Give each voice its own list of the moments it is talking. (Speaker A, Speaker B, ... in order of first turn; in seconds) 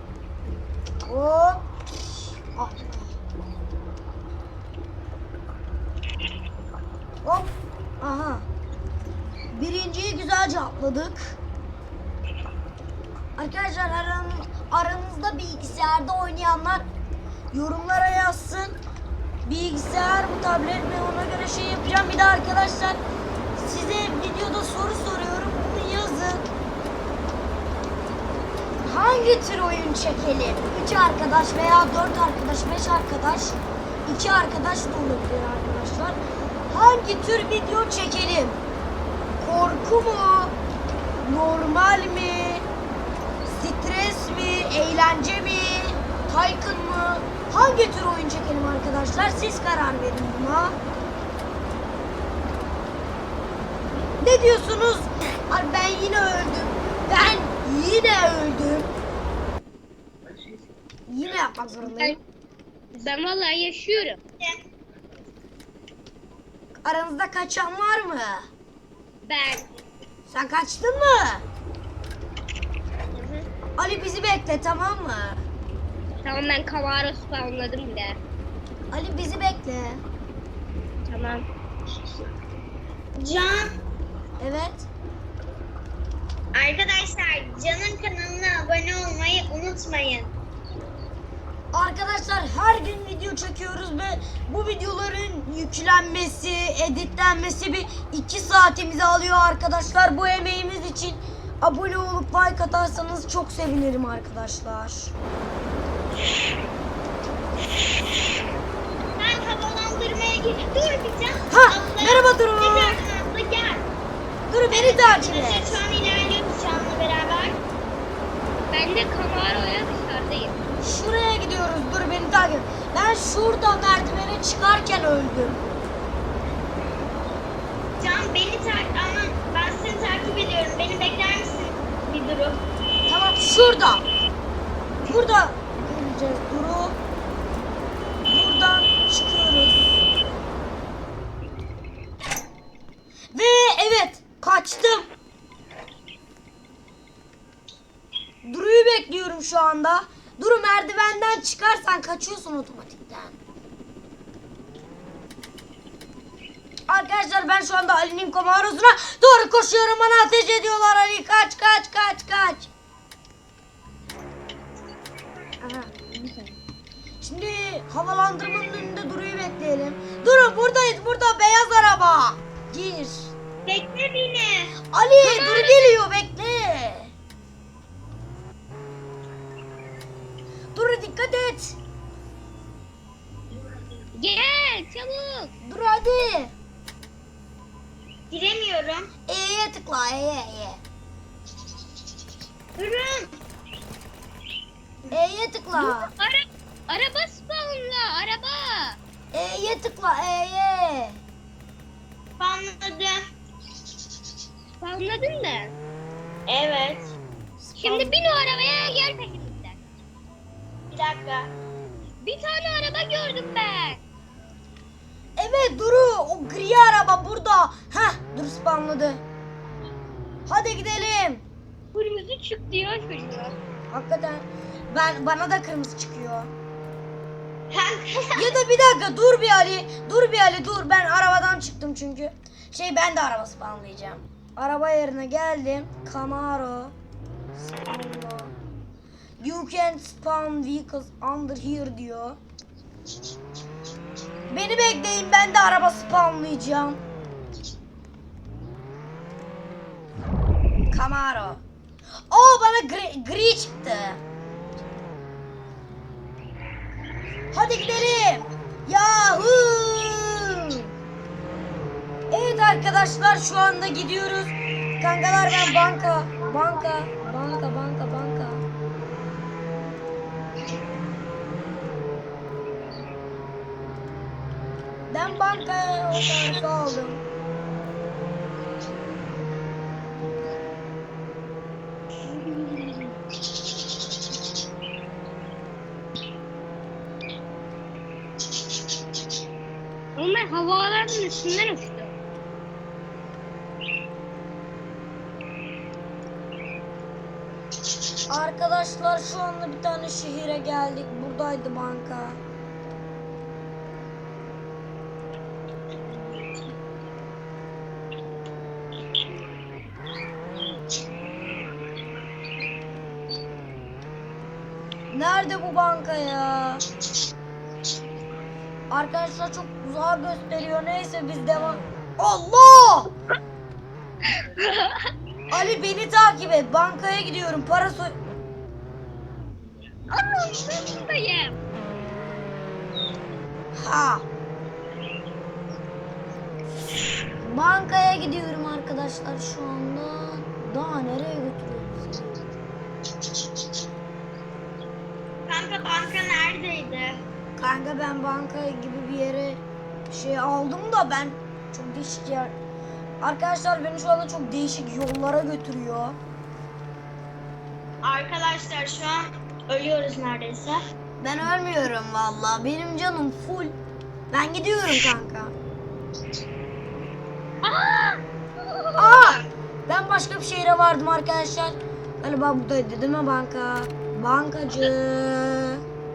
Speaker A: 1.0-1.7, 2.5-3.2, 7.2-8.4, 9.5-11.4, 13.3-16.9, 17.5-18.7, 19.4-23.0, 23.5-26.4, 28.8-36.2, 36.7-38.6, 39.4-40.5, 41.2-42.6, 43.5-50.7, 54.2-58.9, 61.1-62.2, 66.8-68.5, 70.3-71.4, 73.8-75.4, 78.9-80.0, 84.4-84.9, 91.7-105.1, 111.5-113.0, 114.5-115.8, 120.8-125.6, 133.1-134.0, 135.1-136.9, 138.2-139.8, 143.3-145.1, 148.4-153.4, 156.9-162.7, 167.2-173.3, 174.9-177.1, 180.7-181.8, 185.6-186.5, 189.3-190.8, 195.1-196.1, 199.3-201.2, 207.6-208.2, 215.4-219.2, 220.5-221.4, 223.9-226.5, 228.3-236.9, 237.6-238.5, 239.4-242.4, 244.5-247.0, 250.9-251.6, 252.3-254.2, 257.5-260.8, 262.3-268.6, 275.1-277.2, 298.3-302.4, 315.1-316.8, 318.9-323.1, 325.5-328.1, 333.8-334.2, 337.4-342.4, 347.6-352.5, 353.2-356.2, 361.2-363.8, 364.3-365.5, 369.0-375.8
Speaker B: 61.8-62.2, 62.9-64.2, 69.2-69.7, 76.2-78.2, 81.1-81.4, 118.7-120.6, 165.6-166.6, 175.2-176.0, 184.1-185.5, 195.7-199.0, 204.8-205.7, 207.8-209.8, 212.2-214.0, 221.9-223.6, 282.3-283.1, 290.1-292.1, 324.3-325.1, 330.1-331.6, 367.6-369.4
Speaker C: 73.2-73.4, 83.2-83.7, 86.5-90.3, 109.2-113.9, 114.7-117.6, 128.0-132.6, 173.7-174.7, 188.3-189.1, 192.8-193.3, 202.4-203.2, 206.5-207.1, 210.9-211.5, 227.7-228.6, 265.7-266.6, 345.5-347.2, 358.0-360.8